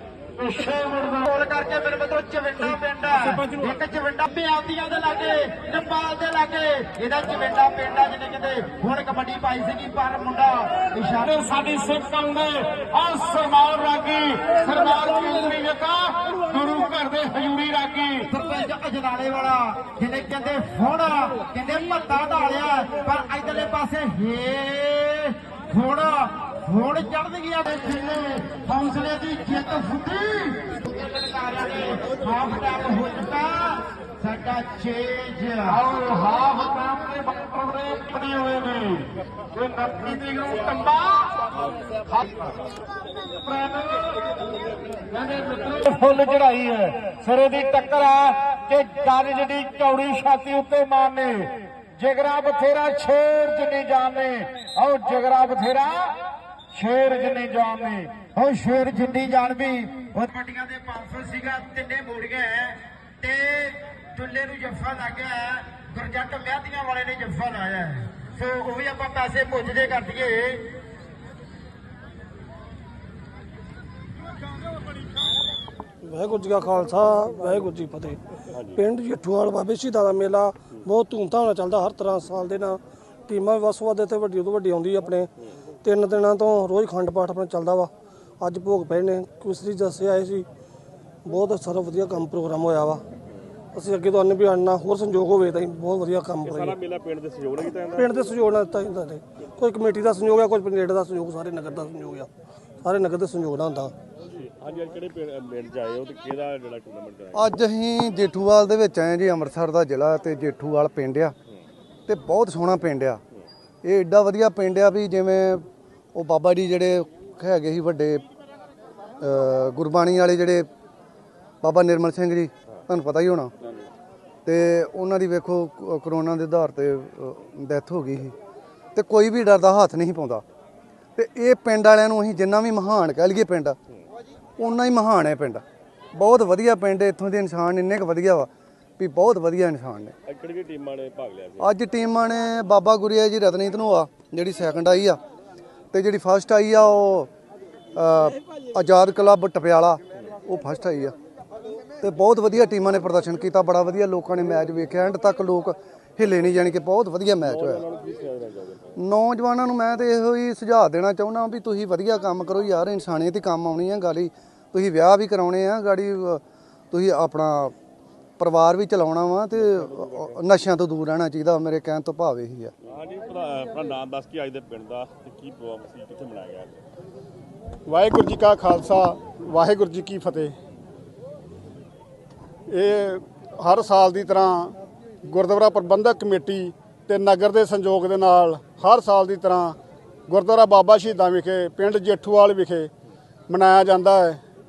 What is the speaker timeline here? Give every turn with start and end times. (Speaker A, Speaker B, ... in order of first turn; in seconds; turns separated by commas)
Speaker A: 0.4-1.2, Speaker B: 1.2-11.3, Speaker A: 3.1-3.5, Speaker A: 11.2-18.3, Speaker B: 18.3-35.8, Speaker A: 35.7-41.4, Speaker A: 42.0-42.5, Speaker A: 43.4-44.2, Speaker A: 45.1-56.1, Speaker A: 56.7-58.3, Speaker B: 58.3-70.7, Speaker C: 76.0-78.2, Speaker D: 78.5-78.8, Speaker C: 78.8-85.3, Speaker C: 85.8-90.5, Speaker C: 91.2-93.0, Speaker C: 93.7-96.7, Speaker D: 96.4-98.3, Speaker C: 98.0-102.3, Speaker C: 102.8-103.9, Speaker D: 104.2-107.5, Speaker E: 107.3-111.3, Speaker E: 112.1-113.2, Speaker E: 113.8-118.2, Speaker E: 119.2-120.7, Speaker E: 121.6-123.5, Speaker E: 124.4-128.3, Speaker E: 128.9-130.4, Speaker E: 131.2-133.8, Speaker E: 134.6-135.6, Speaker E: 136.2-140.1, Speaker D: 140.2-141.7, Speaker E: 141.6-145.2, Speaker E: 145.9-147.3, Speaker E: 147.9-151.2, Speaker E: 152.0-157.8, Speaker D: 157.4-158.9, Speaker E: 158.9-167.7, Speaker E: 168.4-172.7, Speaker D: 169.6-170.4, Speaker D: 172.8-176.8, Speaker F: 177.8-180.5, Speaker F: 182.7-189.8, Speaker F: 190.3-192.9, Speaker F: 193.5-194.4